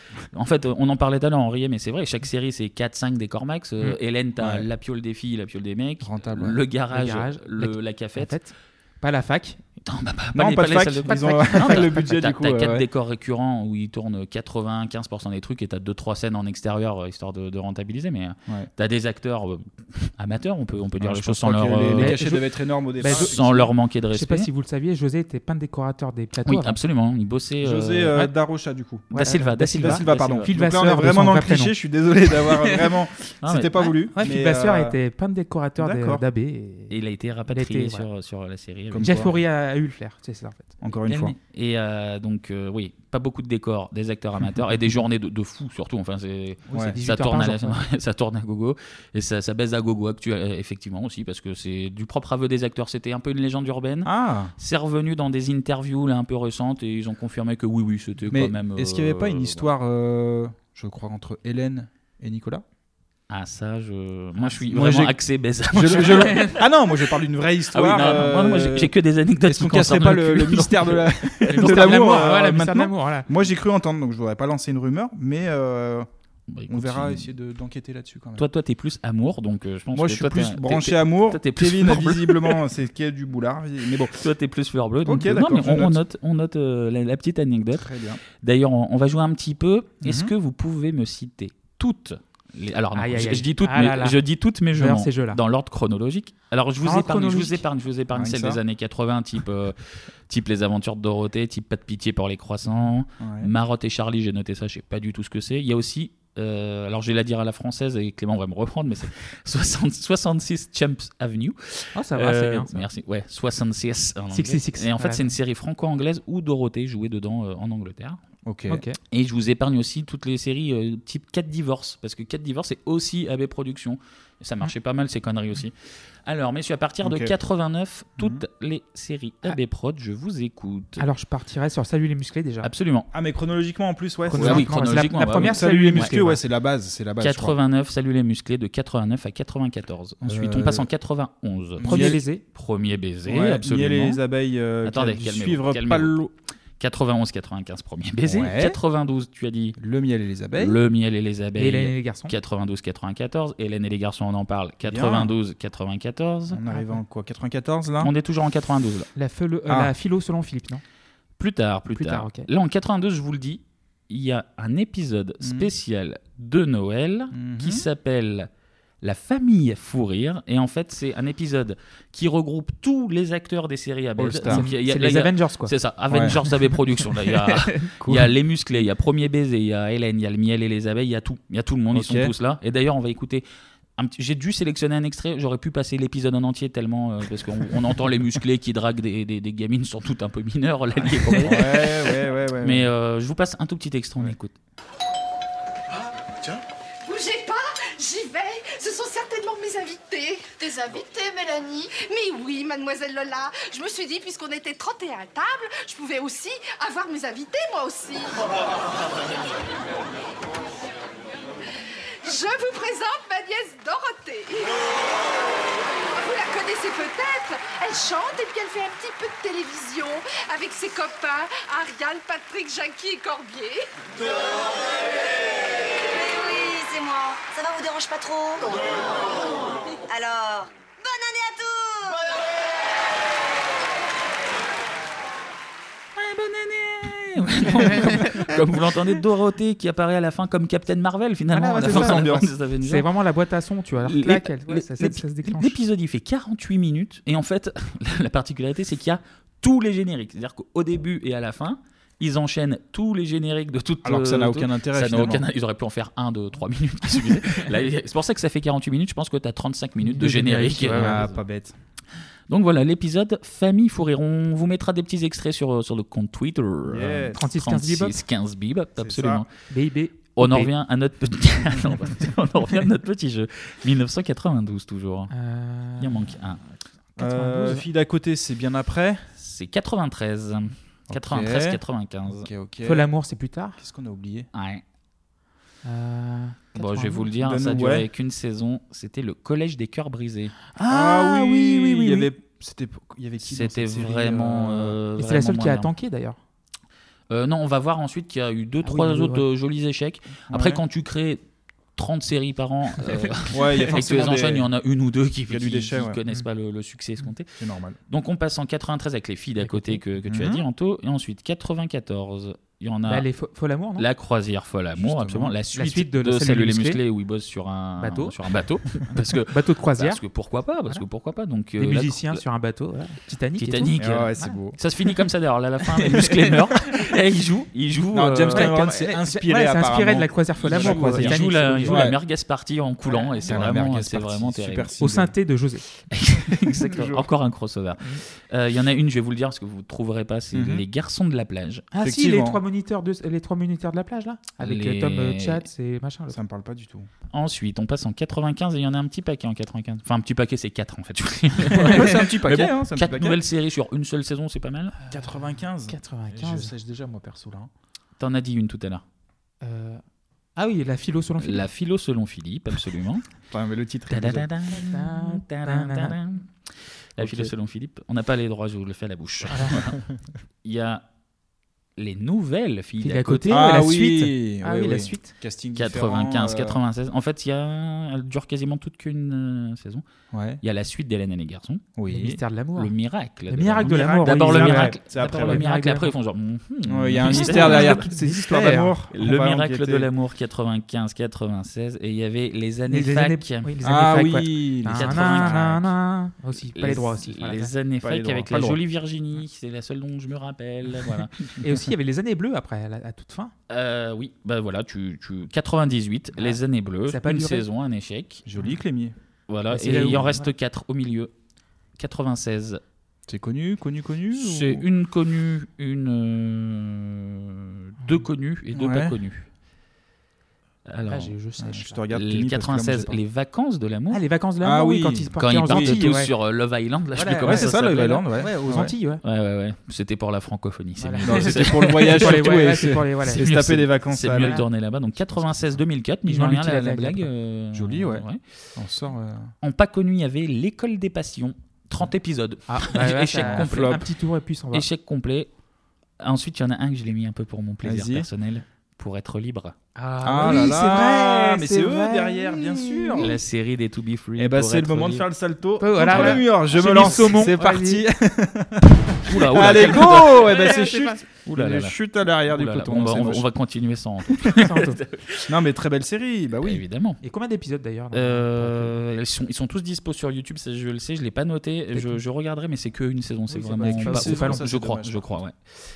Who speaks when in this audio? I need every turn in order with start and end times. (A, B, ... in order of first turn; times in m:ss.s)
0:00.3-0:08.3 A
0:04.4-0:04.6 B
0:06.0-0:06.6 B
0:06.9-0:09.6 C
0:09.8-0:22.2 A
0:10.3-0:12.8 B
0:11.1-0:12.1 C
0:21.0-0:23.7 B
0:21.9-0:22.4 C
0:23.0-0:23.4 C
0:23.0-0:24.5 A
0:24.1-0:26.8 C
0:26.4-0:28.2 A
0:27.6-0:35.0 B
0:29.1-0:31.7 C
0:29.1-0:30.5 A
0:33.4-0:34.0 A
0:34.1-0:36.9 C
0:35.8-0:36.2 B
0:36.9-0:39.3 A
0:37.5-0:38.1 C
0:38.9-0:39.4 B
0:39.0-0:40.8 C
0:40.8-0:41.3 B
0:41.1-0:59.7 A
0:46.7-0:47.0 B
0:46.7-0:47.8 C
0:54.0-0:54.5 B
0:58.3-1:02.6 B
1:03.3-1:06.6 A
1:04.6-1:05.2 B
1:05.7-1:08.9 B
1:07.7-1:12.2 A
1:09.4-1:16.1 B
1:11.5-1:13.3 C
1:16.5-1:17.3 A
1:16.7-1:18.4 B
1:18.4-1:22.6 A
1:19.9-1:24.2 B
1:24.1-1:27.9 A
1:25.0-1:26.0 B
1:27.7-1:28.2 B
1:28.4-1:39.8 A
1:30.0-1:30.3 B
1:32.9-1:34.2 C
1:34.7-1:35.4 C
1:36.8-1:37.6 C
1:38.1-1:38.6 B
1:40.3-1:58.2 A
1:43.2-1:43.5 B
1:52.0-1:52.8 C
1:54.3-1:55.3 C
1:58.4-1:58.8 B
1:58.7-1:59.0 C
1:59.1-2:05.7 A
2:06.2-2:11.0 A
2:07.0-2:07.3 B
2:08.2-2:08.4 B
2:11.0-2:12.7 C
2:12.6-2:13.1 A
2:13.1-2:17.6 B
2:14.3-2:16.4 C
2:14.3-2:16.2 A
2:17.2-2:24.2 A
2:20.2-2:20.9 B
2:21.8-2:22.2 B
2:21.8-2:22.4 C
2:23.2-2:26.3 B
2:24.8-2:26.2 A
2:26.8-2:29.8 A
2:28.2-2:28.8 B
2:29.8-2:30.8 B
2:30.6-2:36.6 A
2:31.6-2:32.3 C
2:34.8-2:35.3 B
2:36.5-2:38.1 B
2:36.7-2:37.0 C
2:38.0-2:39.1 A
2:39.2-2:40.8 C
2:39.7-2:39.9 B
2:41.4-2:48.5 A
2:41.9-2:42.5 C
2:45.4-2:45.7 B
2:47.3-2:47.9 B
2:49.0-3:03.4 A
2:54.2-2:54.7 B
2:54.5-2:55.7 C
2:56.1-2:56.4 B
2:57.2-2:57.9 C
2:58.0-2:58.3 B
3:01.9-3:02.3 B
3:04.0-3:14.5 A
3:11.4-3:12.9 B
3:17.0-3:28.5 D
3:32.2-3:35.0 D
3:36.1-3:43.9 D
3:46.1-3:49.0 E
3:50.1-3:52.2 E
3:56.2-4:03.0 A
3:58.0-3:58.2 C
4:01.5-4:05.8 C
4:01.8-4:02.5 B
4:04.0-4:21.4 A
4:14.0-4:15.4 B
4:20.0-4:21.2 C
4:20.8-4:21.8 B
4:22.5-4:29.5 A
4:26.8-4:27.4 B
4:27.3-4:28.2 C
4:29.0-4:29.4 B
4:29.7-4:30.7 C
4:30.4-4:35.3 A
4:35.3-4:36.3 C
4:36.0-4:36.6 A
4:37.1-4:37.8 C
4:37.2-4:39.2 B
4:39.4-4:42.5 A
4:41.1-4:43.1 B
4:42.8-4:43.8 C
4:43.8-4:44.5 B
4:44.5-4:44.8 A
4:45.8-4:47.3 C
4:46.7-4:52.2 A
4:47.4-4:48.1 B
4:50.9-4:55.0 B
4:53.4-4:55.9 A
4:55.2-4:56.4 C
4:57.3-5:01.4 A
4:58.8-4:59.4 C
5:00.5-5:00.8 B
5:02.0-5:07.5 A
5:03.5-5:04.7 B
5:05.5-5:06.2 B
5:07.6-5:08.0 B
5:08.1-5:13.2 A
5:09.6-5:10.0 C
5:10.3-5:10.6 B
5:13.1-5:14.1 C
5:14.0-5:22.4 A
5:15.0-5:15.6 B
5:15.7-5:17.0 C
5:18.0-5:18.4 C
5:19.5-5:20.2 C
5:21.8-5:24.6 C
5:23.6-5:28.8 A
5:24.0-5:24.8 B
5:26.0-5:26.5 C
5:28.1-5:32.2 B
5:28.5-5:32.1 C
5:30.6-5:34.9 A
5:33.1-5:33.4 C
5:33.4-5:35.4 B
5:35.0-5:35.8 C
5:36.1-5:41.9 A
5:36.8-5:37.3 B
5:40.5-5:40.8 B
5:41.9-5:46.4 C
5:42.0-5:42.6 B
5:44.6-5:45.6 A
5:46.3-5:47.1 B
5:47.3-5:54.9 A
5:51.7-5:53.4 B
5:55.1-5:56.7 C
5:55.1-5:57.7 B
5:58.2-5:59.0 A
5:59.6-6:00.0 C
6:00.6-6:01.7 C
6:01.4-6:03.2 A
6:03.5-6:04.5 B
6:04.1-6:06.5 A
6:04.7-6:06.2 C
6:07.2-6:09.9 A
6:07.2-6:07.5 B
6:09.5-6:09.9 C
6:10.6-6:11.0 A
6:12.0-6:13.6 A
6:13.0-6:15.3 C
6:13.5-6:16.8 B
6:15.7-6:20.0 A
6:20.3-6:20.6 B
6:20.6-6:21.9 A
6:21.9-6:22.4 B
6:22.1-6:22.9 C
6:22.8-6:28.1 A
6:23.5-6:26.1 C
6:23.8-6:25.7 B
6:26.9-6:30.1 B
6:27.2-6:28.9 C
6:29.1-6:33.7 A
6:32.9-6:37.7 C
6:33.8-6:35.8 B
6:34.9-6:35.9 A
6:36.7-6:41.4 A
6:38.0-6:38.8 B
6:41.6-6:43.5 C
6:43.7-6:48.4 A
6:46.4-6:47.6 C
6:48.4-6:49.1 B
6:49.5-6:51.3 A
6:49.7-6:50.5 C
6:52.0-6:52.8 A
6:53.3-6:54.8 B
6:54.3-6:59.5 A
6:58.7-6:59.2 B
7:00.9-7:01.3 A
7:01.0-7:02.0 C
7:01.6-7:03.2 B
7:02.1-7:04.2 A
7:04.1-7:06.3 C
7:04.6-7:06.1 B
7:05.4-7:08.3 A
7:07.1-7:09.2 C
7:07.4-7:08.9 B
7:09.2-7:12.7 A
7:11.0-7:13.5 C
7:11.2-7:14.6 B
7:13.3-7:18.4 A
7:14.3-7:14.6 C
7:15.3-7:15.8 B
7:16.2-7:17.3 C
7:17.7-7:19.5 B
7:19.6-7:24.0 A
7:22.7-7:24.9 C
7:23.3-7:24.0 B
7:24.7-7:25.5 A
7:26.2-7:29.8 A
7:27.8-7:28.3 B
7:30.0-7:33.3 C
7:30.2-7:33.4 B
7:33.2-7:35.3 A
7:34.4-7:43.5 B
7:35.8-7:38.0 C
7:36.0-7:37.3 A
7:39.2-7:40.9 A
7:39.6-7:41.2 C
7:41.4-7:45.5 A
7:44.5-7:45.0 C
7:45.5-7:46.8 B
7:46.6-7:47.2 A
7:47.2-7:48.9 C
7:48.1-7:55.6 A
7:51.9-7:52.2 C
7:53.5-7:55.4 B
7:53.6-7:54.6 C